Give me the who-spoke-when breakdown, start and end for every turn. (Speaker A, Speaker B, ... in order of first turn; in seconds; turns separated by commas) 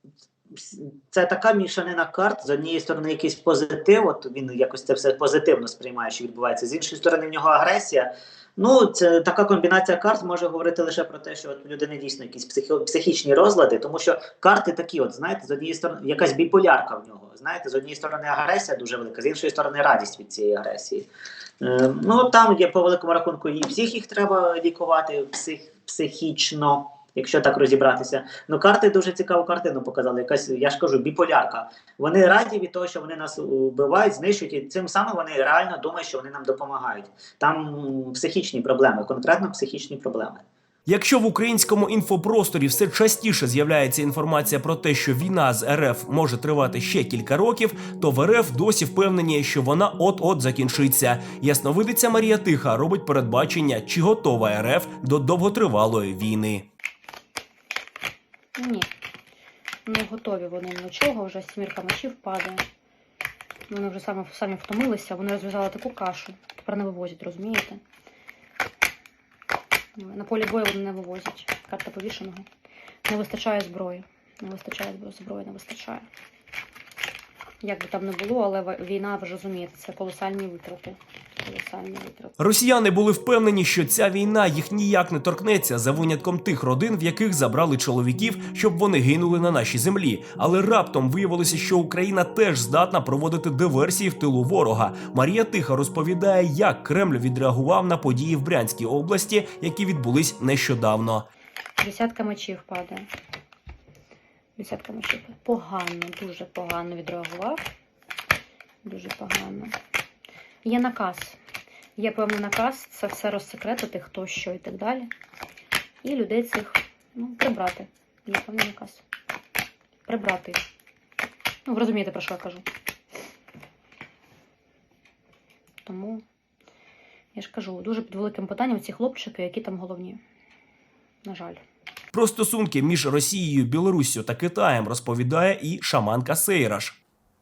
Speaker A: 0.5-21.1, Speaker A: 21.6-40.4, Speaker B: 40.9-56.6, Speaker C: 58.5-58.9, Speaker C: 59.9-62.6, Speaker C: 63.7-67.8, Speaker C: 70.0-72.5, Speaker C: 73.0-76.0, Speaker C: 77.6-82.3, Speaker B: 82.4-101.2, Speaker C: 101.8-103.1, Speaker C: 104.6-107.7, Speaker C: 108.8-109.7, Speaker C: 110.6-111.4, Speaker C: 112.0-115.1, Speaker C: 116.0-119.0, Speaker C: 120.0-120.6, Speaker C: 121.7-122.6, Speaker C: 125.8-126.2, Speaker C: 127.3-130.2, Speaker C: 131.2-131.6, Speaker B: 132.1-136.9